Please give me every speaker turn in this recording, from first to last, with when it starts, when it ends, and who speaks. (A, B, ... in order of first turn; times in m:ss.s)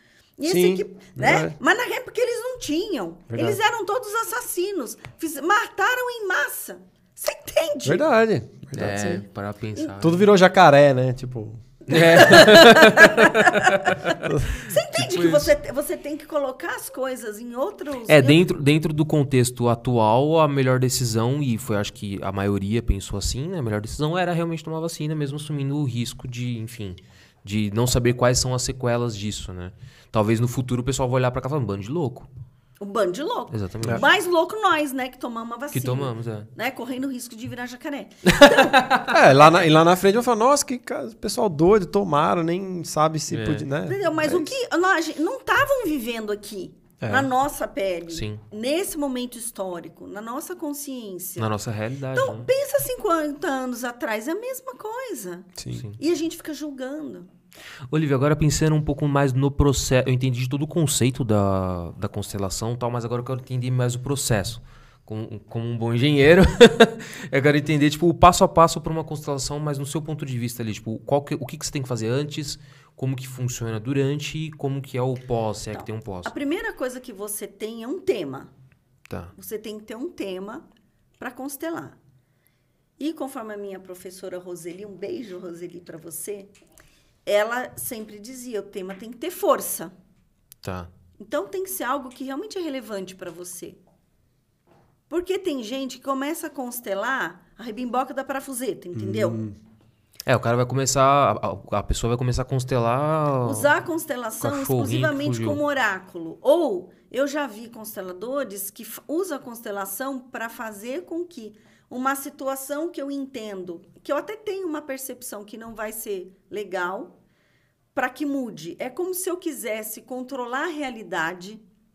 0:00.4-0:08.0 A
0:00.4-0:01.5 B
0:03.3-0:03.6 B
0:07.8-0:09.2 B
0:08.8-0:10.2 C
0:08.8-0:10.0 A
0:10.0-0:12.2 B
0:11.9-0:15.5 C
0:11.9-0:18.4 A
0:14.2-0:14.6 B
0:18.1-0:32.3 C
0:32.8-0:39.4 A
0:33.5-0:34.0 C
0:35.7-0:36.5 C
0:38.3-0:39.1 C
0:39.0-0:44.5 B
0:43.3-0:43.7 C
0:43.8-0:51.5 A
0:47.0-0:47.3 B
0:48.1-0:48.4 C
0:51.4-0:52.5 C
0:52.1-0:57.3 A
0:55.6-0:55.8 B
0:55.7-0:56.0 C
0:57.9-1:16.3 C
1:15.7-1:18.5 A
1:19.4-1:20.6 A
1:21.2-1:22.0 A
1:23.0-1:26.5 A
1:27.2-1:29.9 A
1:30.6-1:30.9 C
1:31.2-1:33.8 A
1:35.1-1:39.4 A
1:38.9-1:39.5 B
1:40.2-1:43.7 C
1:43.4-1:57.1 A
1:44.4-1:45.6 C
1:57.9-2:01.6 A